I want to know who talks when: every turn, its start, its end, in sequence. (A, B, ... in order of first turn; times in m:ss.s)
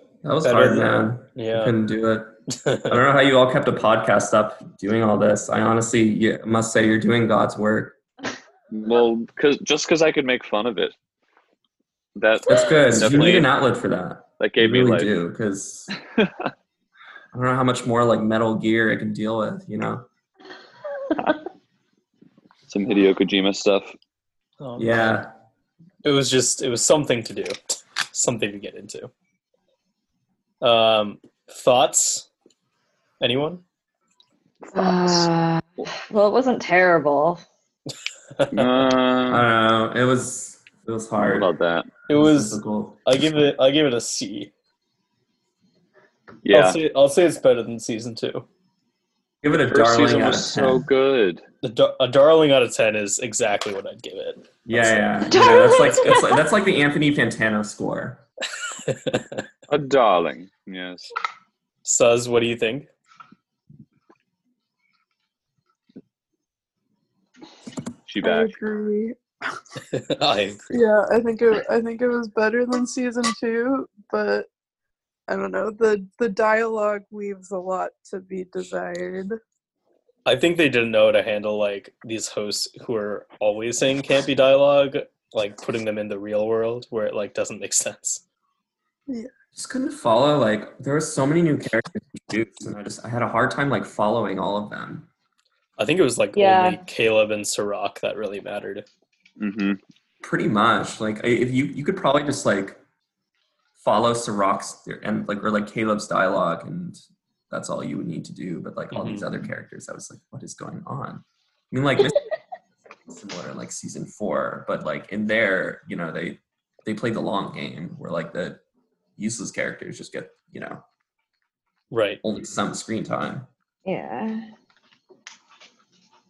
0:00.2-0:02.4 A
0:00.4-0:01.8 B
0:02.6-0:02.9 B
0:02.9-0:08.0 A
0:08.7-0:10.9 C
0:12.2-0:13.5 C
0:12.5-0:15.9 A
0:14.4-0:15.1 C
0:17.3-0:20.1 A
0:22.7-0:23.9 C
0:24.6-0:25.2 B
0:24.8-0:25.3 A
0:26.0-0:27.6 B
0:28.1-0:29.1 B
0:30.6-0:32.3 B
0:33.2-0:33.6 B
0:34.7-0:37.4 D
0:34.8-0:35.1 C
0:38.4-0:38.8 B
0:38.5-0:39.5 C
0:39.3-0:41.5 A
0:41.2-0:41.9 C
0:42.1-0:44.5 B
0:42.1-0:43.0 A
0:46.4-0:46.8 C
0:46.5-0:48.4 B
0:49.4-0:50.8 A
0:49.7-0:51.4 C
0:51.6-0:55.3 B
0:54.6-0:58.2 A
0:55.3-0:56.4 D
0:58.8-0:59.4 B
0:59.7-1:01.1 C
1:01.8-1:02.9 B
1:08.1-1:08.5 C
1:08.2-1:09.2 E
1:09.8-1:10.9 B
1:10.7-1:14.5 E
1:15.3-1:19.4 E
1:20.2-1:28.2 B
1:29.6-1:35.1 A
1:35.8-1:38.8 B
1:36.3-1:36.8 D
1:39.4-1:39.8 C
1:40.2-1:42.8 A
1:43.8-1:52.2 A
1:48.9-1:49.5 B
1:53.1-1:58.6 A
1:59.2-2:00.8 A
2:01.9-2:02.2 B
2:02.2-2:03.5 A
2:03.8-2:04.4 D